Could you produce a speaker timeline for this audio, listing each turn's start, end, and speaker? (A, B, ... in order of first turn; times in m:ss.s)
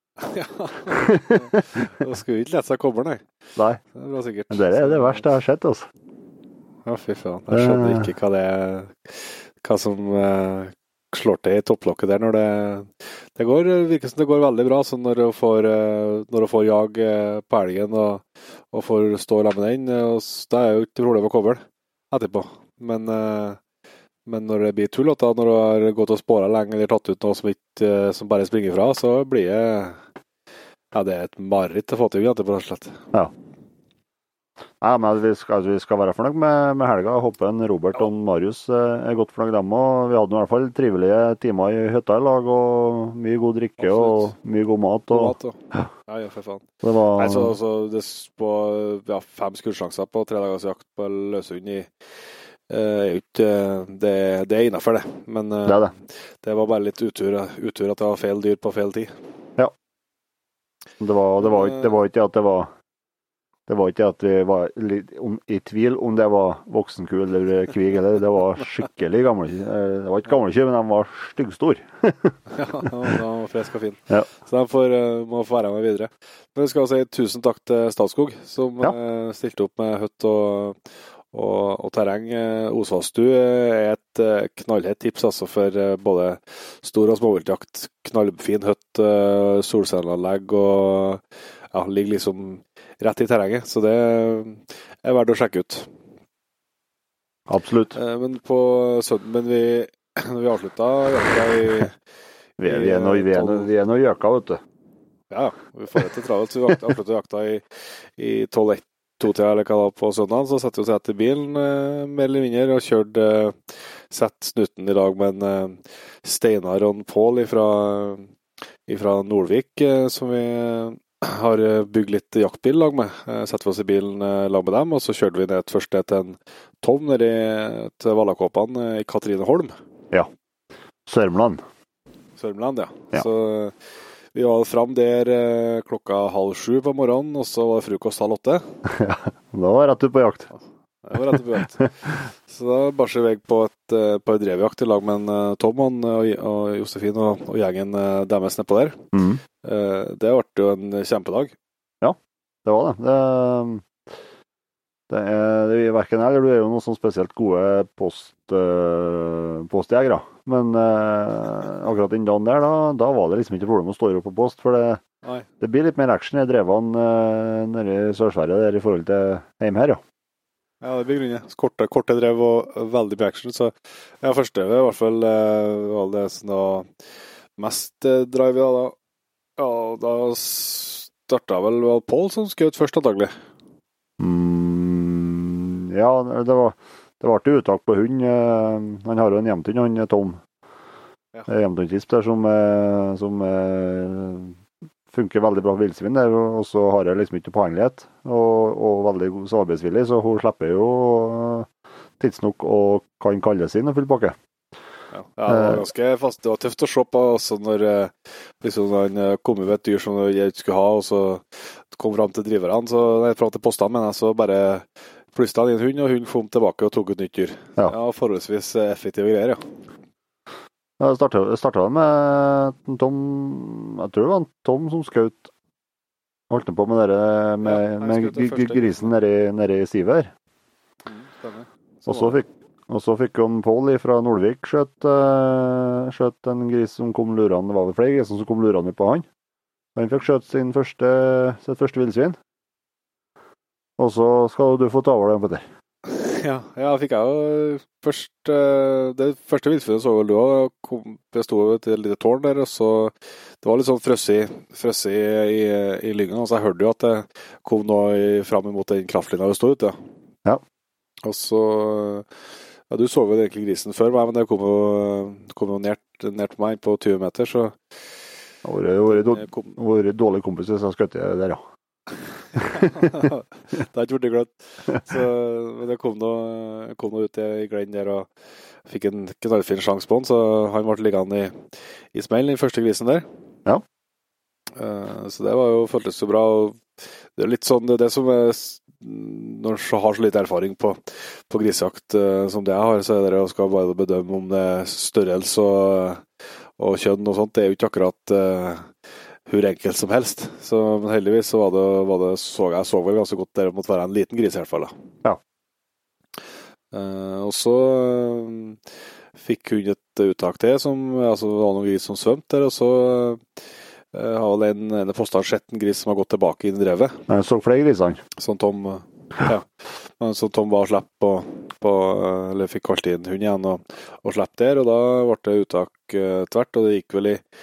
0:00.2-0:03.3 A
0:01.0-0:01.4 B
0:03.6-0:03.8 B
0:04.0-0:05.2 A
0:04.5-0:05.9 B
0:06.8-0:23.6 A
0:07.5-0:08.1 B
0:24.3-0:30.0 A
0:30.9-0:33.0 A
0:34.8-0:45.9 B
0:43.8-0:44.3 A
0:45.1-0:51.9 A
0:46.8-0:47.6 B
0:52.7-0:55.9 A
0:55.6-0:55.9 B
0:56.4-0:59.1 A
1:01.0-1:02.7 B
1:03.7-1:12.4 B
1:12.5-1:20.8 A
1:21.3-1:31.2 A
1:31.7-1:35.9 A
1:37.5-1:38.0 B
1:38.0-1:41.9 A
1:42.6-1:44.6 B
1:42.6-1:43.7 A
1:45.3-1:58.3 A
1:58.9-2:09.7 A
2:11.1-2:11.6 B
2:12.4-2:13.8 A
2:14.3-2:18.6 A
2:18.9-2:20.5 B
2:21.0-2:29.0 A
2:29.1-2:29.4 B
2:29.6-2:31.5 A
2:32.0-2:33.8 B
2:35.1-2:45.0 B
2:45.6-2:50.0 B
2:50.8-2:56.9 A
2:57.6-2:59.0 A
2:59.6-3:03.3 A
3:04.2-3:10.4 B
3:11.5-3:14.6 B
3:15.1-3:21.7 B
3:22.2-3:24.4 B
3:25.1-3:39.6 A
3:25.5-3:25.8 B
3:41.0-3:45.5 B
3:46.5-3:50.3 B
3:47.6-3:49.1 A
3:51.1-3:52.4 A
3:52.1-3:59.3 B
4:00.0-4:02.4 B
4:04.0-4:05.6 B
4:06.1-4:20.0 A
4:21.2-4:22.3 A
4:22.9-4:27.8 A
4:28.6-4:31.6 B
4:29.1-4:29.8 A
4:32.6-4:38.3 A
4:38.9-4:43.2 A
4:44.8-4:56.2 A
4:56.8-4:58.9 A
4:59.5-5:04.9 A
5:06.9-5:08.8 A
5:09.4-5:13.6 A
5:14.1-5:17.2 A
5:17.3-5:18.2 B
5:18.4-5:27.4 A